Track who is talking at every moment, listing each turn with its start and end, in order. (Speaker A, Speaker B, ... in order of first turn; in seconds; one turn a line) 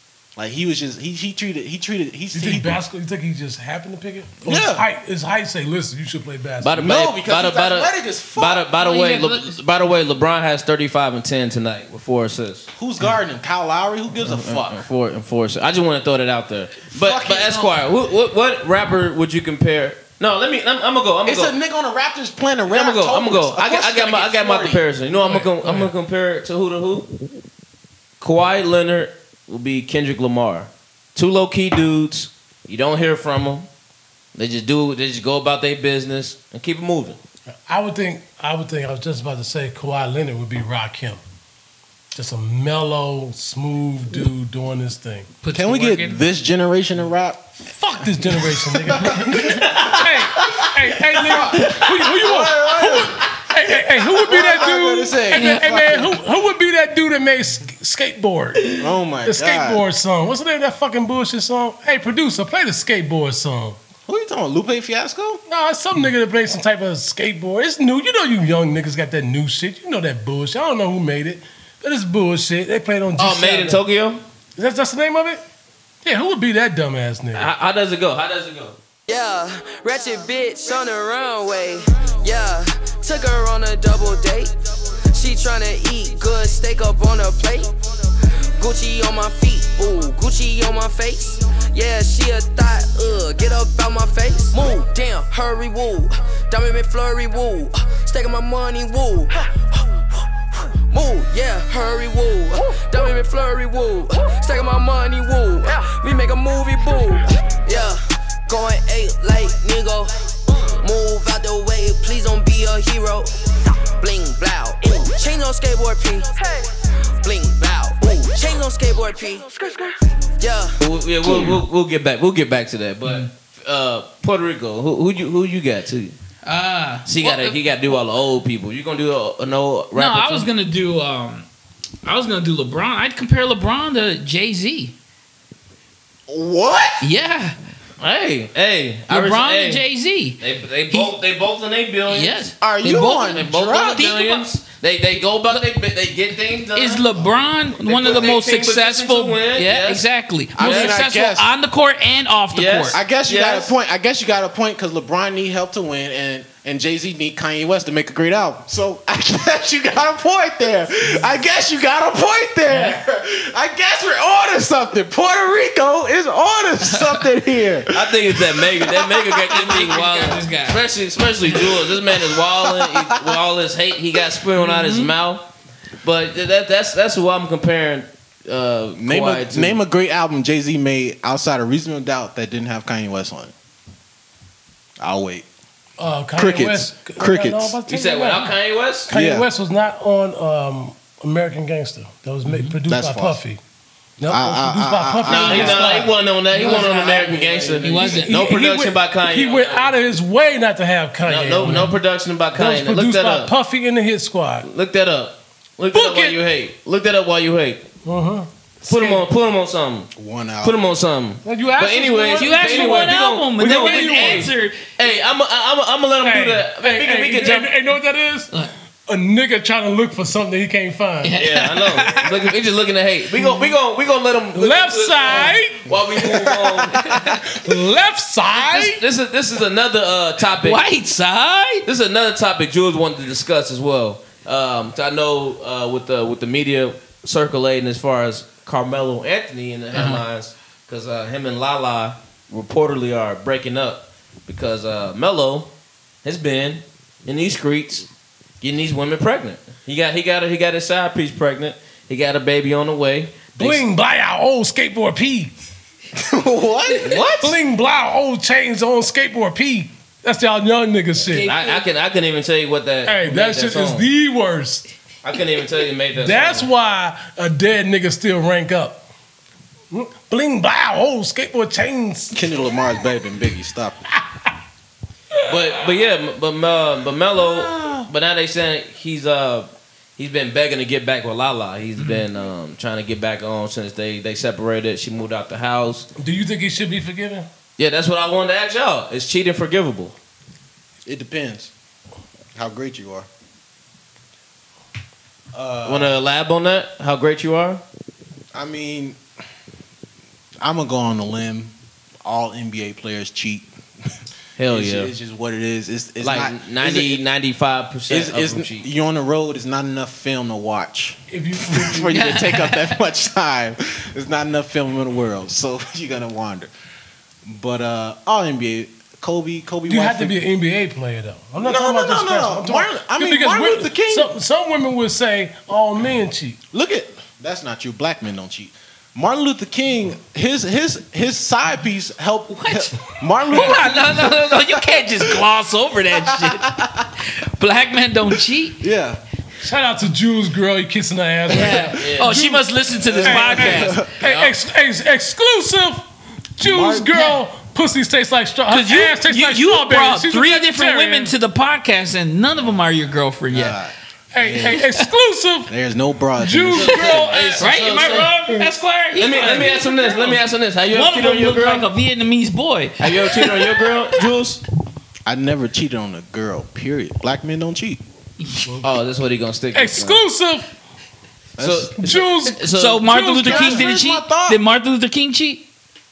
Speaker A: 0.3-2.8
Speaker B: 2.3-6.7
Speaker A: 4.4-4.8
Speaker C: 6.6-12.7
Speaker A: 6.7-8.7
Speaker D: 8.8-9.6
Speaker A: 12.7-14.8
Speaker C: 14.2-21.5
Speaker A: 16.9-17.8
Speaker A: 21.2-24.8
Speaker C: 22.7-27.1
Speaker B: 25.2-25.9
Speaker C: 28.2-33.7
Speaker C: 34.3-37.2
Speaker B: 37.7-41.2
Speaker B: 42.1-45.3
Speaker D: 45.4-46.2
Speaker A: 45.5-47.5
Speaker B: 47.6-63.8
Speaker A: 48.2-49.7
Speaker C: 49.5-50.7
Speaker A: 51.1-53.2
Speaker C: 51.3-52.1
Speaker A: 54.1-56.2
Speaker D: 55.3-55.9
Speaker A: 58.8-59.8
Speaker A: 64.1-65.4
Speaker B: 65.5-73.8
Speaker C: 73.2-74.2
Speaker B: 74.6-75.4
Speaker B: 76.0-77.5
Speaker C: 77.3-78.8
Speaker E: 79.1-84.5
Speaker E: 85.1-87.7
Speaker E: 88.6-99.8
Speaker E: 100.8-113.3
Speaker E: 114.0-116.6
Speaker E: 117.2-120.8
Speaker C: 120.8-126.2
Speaker D: 121.3-121.6
Speaker D: 126.4-127.5
Speaker C: 127.0-130.5
Speaker D: 129.9-131.5
Speaker D: 132.0-134.9
Speaker A: 136.3-137.1
Speaker D: 137.0-137.6
Speaker C: 138.0-139.8
Speaker D: 139.1-141.1
Speaker C: 140.4-142.5
Speaker D: 142.1-144.5
Speaker A: 142.6-144.1
Speaker C: 143.3-147.1
Speaker D: 146.7-153.0
Speaker C: 147.8-150.1
Speaker A: 150.6-151.5
Speaker C: 150.6-151.0
Speaker C: 152.5-153.7
Speaker A: 152.9-169.6
Speaker D: 162.7-163.0
Speaker D: 166.9-167.2
Speaker C: 167.9-175.4
Speaker D: 169.5-170.8
Speaker A: 172.0-173.4
Speaker D: 174.6-175.1
Speaker C: 176.0-179.8
Speaker A: 179.0-183.5
Speaker A: 185.0-185.4
Speaker B: 186.0-188.5
Speaker A: 186.3-187.8
Speaker C: 187.9-189.1
Speaker B: 189.1-193.6
Speaker A: 189.1-189.5
Speaker D: 192.4-192.8
Speaker A: 192.8-193.4
Speaker B: 194.2-197.2
Speaker A: 194.3-196.1
Speaker C: 195.2-199.9
Speaker D: 196.5-198.5
Speaker A: 196.6-198.1
Speaker B: 197.8-202.0
Speaker C: 201.2-203.5
Speaker D: 201.6-201.9
Speaker B: 202.6-204.7
Speaker C: 204.6-207.8
Speaker B: 205.9-206.4
Speaker B: 208.0-209.3
Speaker C: 208.8-210.1
Speaker A: 210.1-210.8
Speaker C: 210.6-217.7
Speaker B: 211.4-214.5
Speaker D: 212.4-214.8
Speaker B: 216.2-218.5
Speaker B: 219.1-221.3
Speaker D: 221.2-222.5
Speaker C: 221.3-227.2
Speaker B: 224.5-225.9
Speaker A: 226.3-226.8
Speaker B: 227.4-229.0
Speaker C: 228.5-230.8
Speaker D: 230.6-231.8
Speaker C: 231.8-245.7
Speaker D: 239.9-240.2
Speaker C: 246.2-248.1
Speaker C: 248.6-253.8
Speaker B: 253.6-255.5
Speaker A: 256.1-257.2
Speaker C: 257.0-257.6
Speaker B: 257.4-261.5
Speaker D: 261.2-261.8
Speaker C: 261.3-264.1
Speaker B: 263.0-264.9
Speaker C: 265.2-266.7
Speaker B: 266.2-269.0
Speaker B: 269.9-272.4
Speaker A: 272.3-274.0
Speaker B: 275.4-275.8
Speaker C: 275.5-286.1
Speaker B: 277.4-278.1
Speaker D: 282.0-282.2
Speaker B: 286.2-287.5
Speaker C: 287.8-290.1
Speaker A: 291.0-291.7
Speaker A: 292.5-293.3
Speaker A: 295.5-296.1
Speaker C: 295.8-297.8
Speaker A: 298.5-299.2
Speaker A: 300.6-301.7
Speaker A: 302.2-303.7
Speaker C: 304.6-305.1
Speaker A: 304.6-307.2
Speaker C: 306.2-308.9
Speaker A: 308.1-316.7
Speaker B: 311.3-312.2
Speaker D: 312.1-312.9
Speaker A: 317.4-320.4
Speaker B: 319.9-326.6
Speaker A: 321.6-324.3
Speaker A: 326.7-335.4
Speaker D: 332.6-338.8
Speaker A: 336.2-336.9
Speaker A: 338.8-339.2
Speaker B: 339.6-342.7
Speaker D: 341.5-344.0
Speaker C: 341.9-342.4
Speaker A: 343.0-344.1
Speaker B: 343.2-346.0
Speaker C: 344.2-344.5
Speaker B: 346.6-351.3
Speaker A: 346.6-347.1
Speaker D: 348.7-353.8
Speaker A: 353.5-354.8
Speaker B: 354.3-355.7
Speaker D: 354.6-355.1
Speaker A: 355.7-357.5
Speaker B: 356.4-358.7
Speaker C: 356.7-358.3
Speaker D: 357.6-364.2
Speaker C: 359.1-361.9
Speaker B: 359.4-359.8
Speaker C: 363.0-364.6
Speaker A: 365.2-368.0
Speaker D: 368.4-368.8
Speaker C: 368.8-370.2
Speaker B: 369.7-370.7
Speaker A: 371.6-371.9
Speaker C: 371.6-373.0
Speaker B: 372.0-373.9
Speaker D: 372.6-375.6
Speaker A: 373.4-374.6